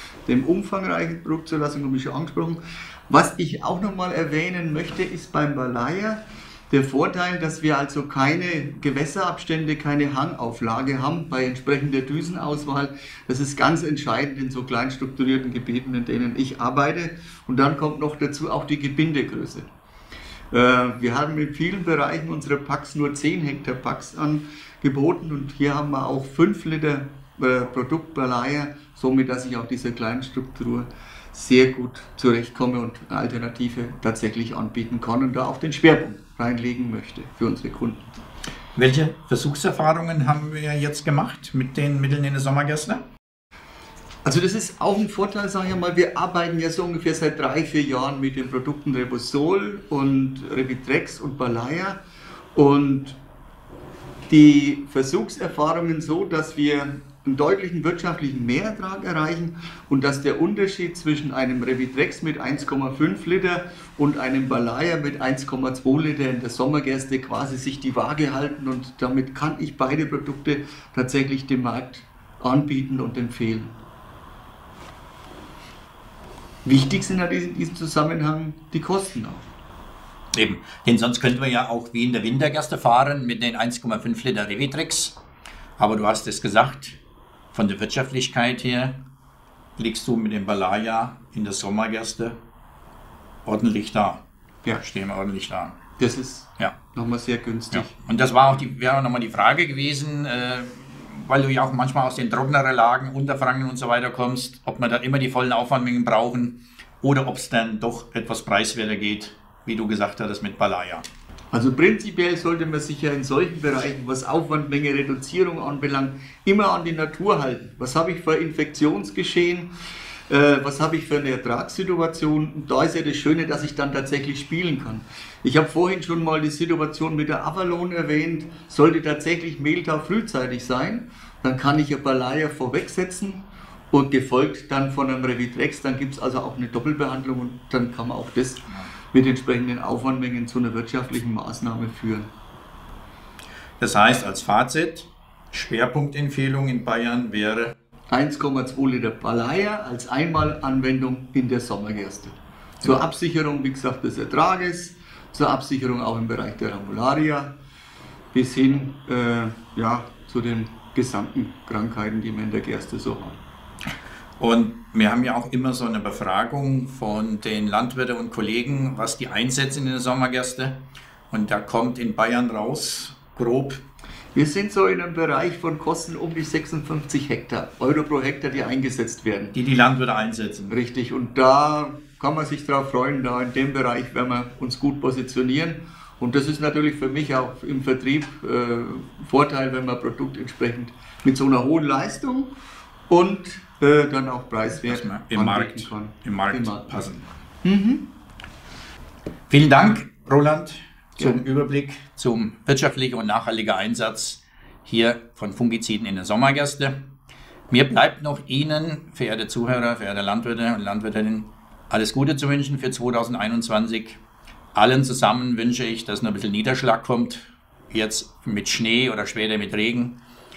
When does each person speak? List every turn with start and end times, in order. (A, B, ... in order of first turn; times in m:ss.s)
0:00.3-0:19.7 A
0:20.5-0:38.1 A
0:38.8-0:43.0 B
0:44.2-0:52.0 A
0:52.6-0:53.2 A
0:54.3-1:13.8 A
1:16.6-1:19.5 A
1:20.3-1:25.2 B
1:25.8-1:27.0 B
1:27.5-1:29.0 B
1:29.8-1:32.4 B
1:33.5-1:34.2 B
1:34.7-1:35.8 B
1:36.0-1:37.9 A
1:37.7-1:51.0 B
1:51.5-1:59.7 A
2:00.3-2:22.3 A
2:23.8-2:27.7 B
2:28.1-2:37.6 A
2:38.3-2:43.4 A
2:44.4-2:50.8 B
2:51.3-2:53.8 B
2:54.3-2:59.6 A
2:59.5-3:00.8 B
3:00.7-3:12.6 A
3:13.1-3:16.9 A
3:14.8-3:17.3 B
3:17.6-3:18.1 A
3:19.5-3:27.1 B
3:27.7-3:34.2 B
3:34.7-3:40.2 B